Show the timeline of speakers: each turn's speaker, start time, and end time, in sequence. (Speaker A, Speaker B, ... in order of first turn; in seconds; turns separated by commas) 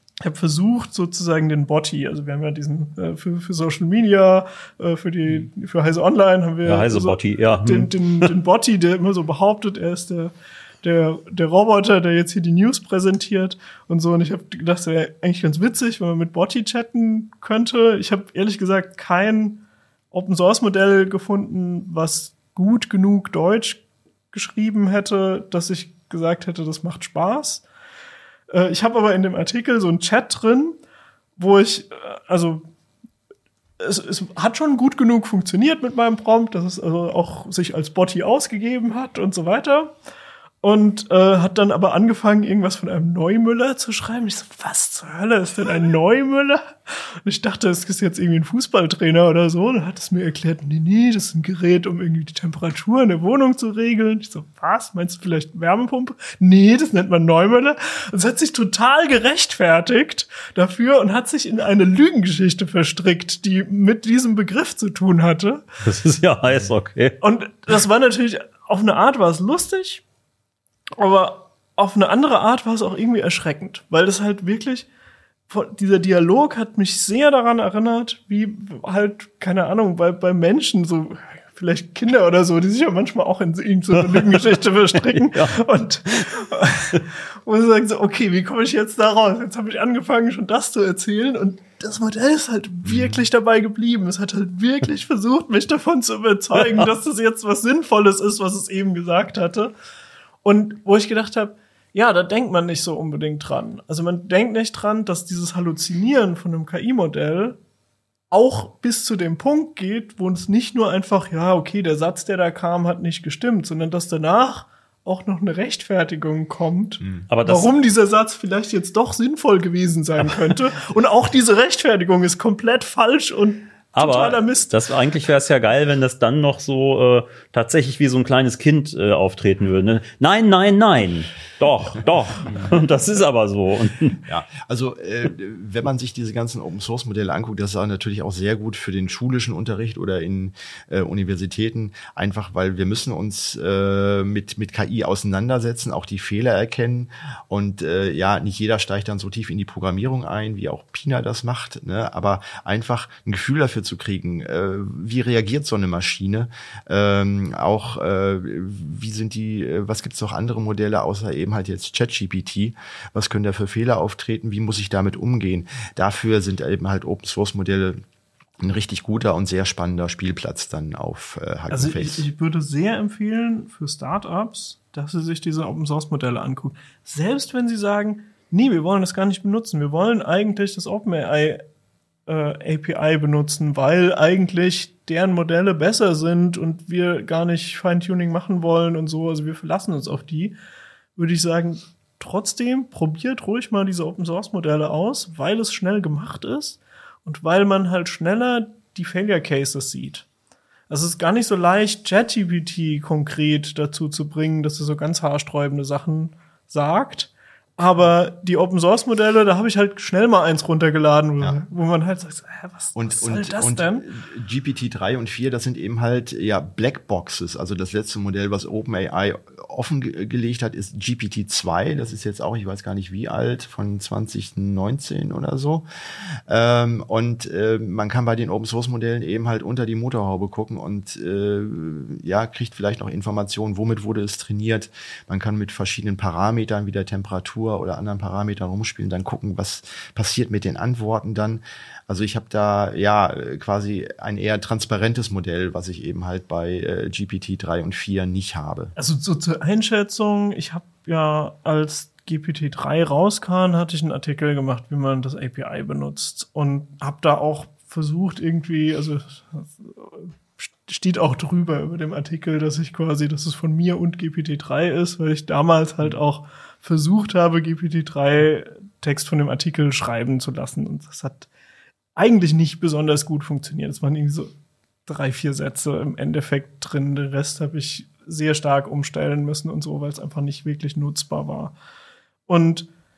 Speaker A: 0.2-27.6, Speaker B: 6.6-8.3, Speaker A: 28.5-30.8, Speaker A: 31.4-32.7, Speaker A: 33.8-39.9, Speaker A: 40.6-46.7, Speaker A: 47.2-65.7, Speaker B: 65.8-67.2, Speaker A: 67.2-70.0, Speaker A: 71.0-74.9, Speaker A: 75.5-99.7, Speaker B: 84.1-84.5, Speaker B: 85.1-86.3, Speaker C: 92.8-93.2, Speaker B: 96.5-96.9, Speaker A: 100.4-107.6, Speaker A: 108.3-124.7, Speaker B: 117.3-117.7, Speaker B: 124.0-134.2, Speaker C: 134.3-168.0, Speaker C: 168.6-172.3, Speaker A: 171.7-181.6, Speaker A: 182.3-190.5, Speaker A: 191.2-200.3, Speaker A: 200.9-214.1, Speaker C: 212.9-225.8, Speaker C: 226.5-248.9, Speaker A: 249.0-271.5, Speaker A: 272.2-274.5, Speaker A: 275.1-281.8, Speaker A: 282.5-282.9